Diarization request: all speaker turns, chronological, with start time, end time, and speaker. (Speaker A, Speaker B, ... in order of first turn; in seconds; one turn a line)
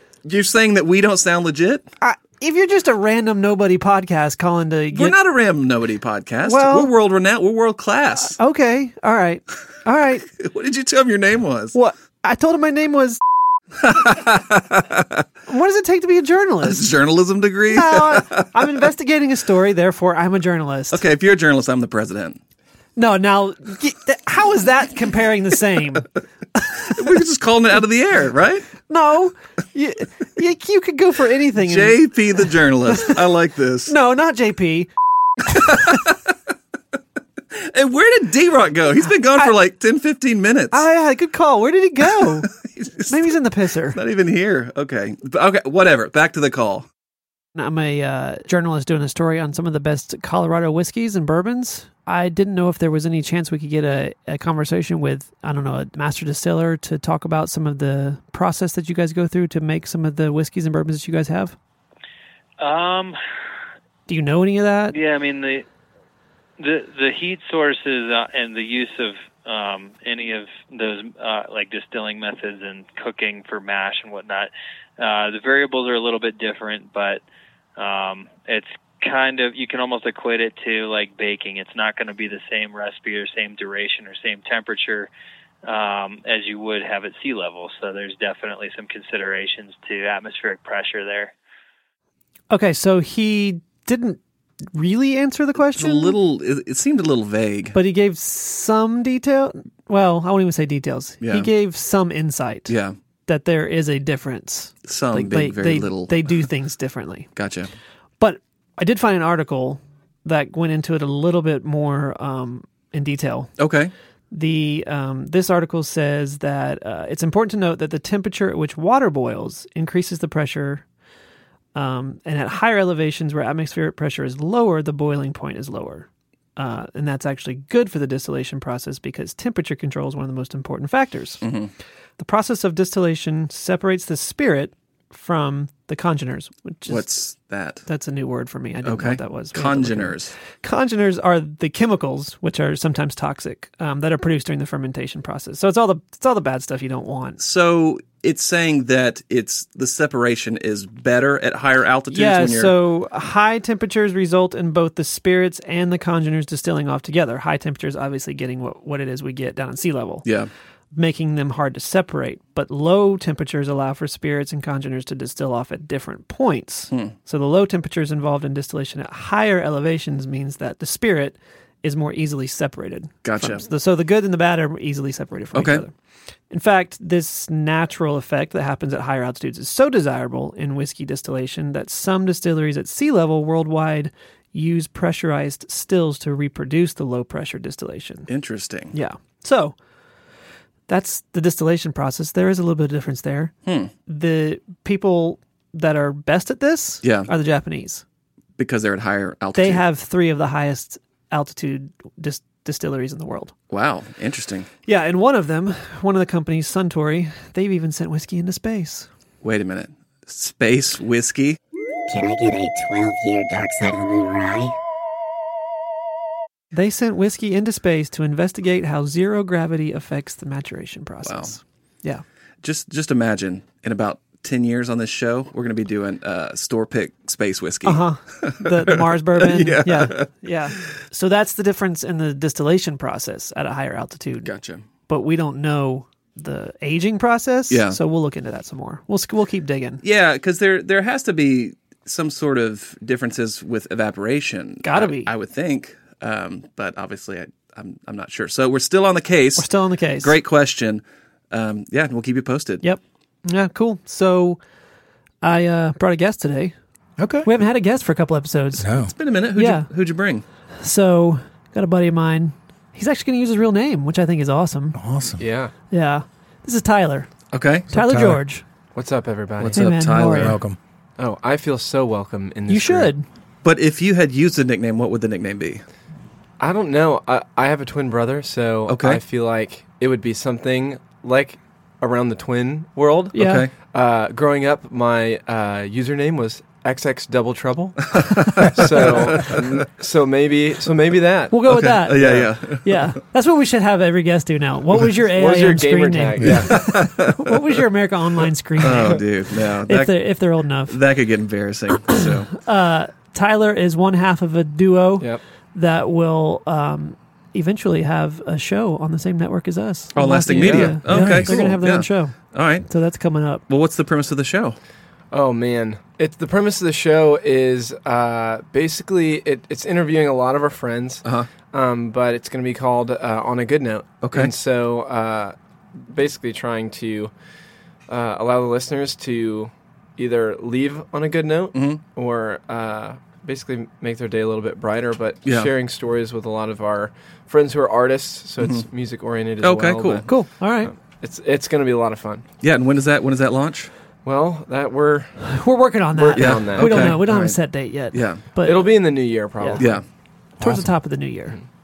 Speaker A: 0.2-1.9
Speaker B: 2.0-5.2
Speaker A: 4.9-8.4
Speaker B: 6.4-6.9
Speaker B: 8.2-10.2
Speaker A: 10.3-11.7
Speaker B: 11.7-13.2
Speaker A: 13.8-15.2
Speaker B: 15.5-16.9
Speaker A: 16.6-18.4
Speaker B: 17.7-21.0
Speaker A: 20.9-22.4
Speaker B: 22.9-26.1
Speaker B: 26.6-27.2
Speaker A: 26.9-28.7
Speaker B: 28.9-32.0
Speaker A: 31.6-33.9
Speaker B: 32.9-33.1
Speaker B: 33.9-34.9
Speaker B: 35.5-36.0
Speaker A: 35.5-36.3
Speaker A: 37.5-40.8
Speaker B: 40.7-42.5
Speaker A: 42.2-43.3
Speaker B: 43.1-44.0
Speaker A: 43.9-46.9
Speaker B: 47.5-61.6
Speaker C: 62.6-63.2
Speaker B: 64.1-64.9
Speaker C: 64.9-65.7
Speaker C: 66.6-77.2
Speaker C: 77.8-85.1
Speaker C: 85.6-91.3
Speaker B: 92.5-94.2
Speaker B: 94.7-96.2
Speaker A: 95.7-97.8
Speaker B: 97.7-102.7
Speaker A: 101.2-101.5
Speaker A: 102.7-102.9
Speaker B: 103.3-107.3
Speaker A: 104.8-106.4
Speaker A: 107.3-107.7
Speaker B: 108.2-113.5
Speaker A: 113.6-113.9
Speaker B: 114.3-120.8
Speaker B: 121.7-131.4
Speaker A: 131.4-131.7
Speaker B: 132.2-137.1
Speaker A: 136.9-137.8
Speaker B: 137.9-147.4
Speaker A: 138.8-140.3
Speaker A: 147.4-152.7
Speaker B: 152.1-160.2
Speaker A: 160.2-160.5
Speaker B: 160.9-175.9
Speaker A: 173.2-173.7
Speaker A: 175.5-175.8
Speaker B: 176.5-188.3
Speaker A: 188.3-188.9
Speaker B: 188.9-189.7
Speaker B: 190.9-193.5
Speaker A: 193.7-193.9
Speaker B: 194.1-198.0
Speaker A: 197.0-197.3
Speaker A: 198.6-199.8
Speaker B: 199.5-203.5
Speaker A: 203.7-204.7
Speaker B: 204.8-209.1
Speaker A: 209.4-211.6
Speaker D: 212.1-214.7
Speaker B: 216.7-222.2
Speaker A: 221.2-221.5
Speaker A: 222.6-230.3
Speaker B: 227.8-234.5
Speaker A: 234.4-234.8
Speaker B: 235.1-240.0
Speaker A: 237.7-238.0
Speaker A: 240.0-249.7
Speaker B: 244.8-245.3
Speaker B: 249.6-250.3
Speaker A: 250.2-252.8
Speaker B: 252.8-254.6
Speaker B: 255.4-256.7
Speaker E: 257.2-257.5
Speaker B: 257.4-258.9
Speaker E: 258.8-259.1
Speaker A: 258.9-260.4
Speaker B: 259.5-259.9
Speaker B: 260.8-265.0
Speaker E: 264.9-265.4
Speaker F: 265.4-265.7
Speaker B: 265.9-267.3
Speaker A: 267.5-267.9
Speaker E: 267.9-268.4
Speaker B: 267.9-268.6
Speaker F: 268.9-270.0
Speaker A: 269.6-270.6
Speaker B: 269.7-270.6
Speaker E: 270.3-270.8
Speaker F: 271.2-273.1
Speaker B: 272.7-273.2
Speaker A: 273.6-275.8
Speaker F: 276.6-291.6
Speaker A: 278.9-279.2
Speaker B: 283.3-283.7
Speaker A: 283.3-283.7
Speaker A: 288.1-289.8
Speaker B: 291.5-299.2
Speaker A: 291.6-293.1
Speaker F: 292.2-292.5
Speaker F: 295.3-296.9
Speaker E: 296.4-296.6
Speaker A: 296.7-297.5
Speaker A: 298.8-302.5
Speaker B: 299.9-301.0
Speaker B: 302.6-312.4
Speaker A: 310.1-312.9
Speaker F: 310.5-311.0
Speaker E: 311.1-311.5
Speaker B: 312.9-313.6
Speaker A: 313.7-314.8
Speaker F: 315.3-327.3
Speaker A: 321.2-321.5
Speaker A: 324.2-324.5
Speaker F: 328.1-342.4
Speaker A: 331.7-332.0
Speaker A: 335.4-335.7
Speaker A: 338.6-338.9
Speaker A: 339.6-340.4
Speaker B: 340.2-340.9
Speaker A: 342.6-343.9
Speaker F: 344.2-345.4
Speaker B: 345.4-349.9
Speaker F: 346.1-347.2
Speaker A: 346.4-347.6
Speaker A: 348.1-348.4
Speaker F: 348.6-350.0
Speaker A: 349.8-350.0
Speaker E: 350.6-350.9
Speaker B: 350.6-351.6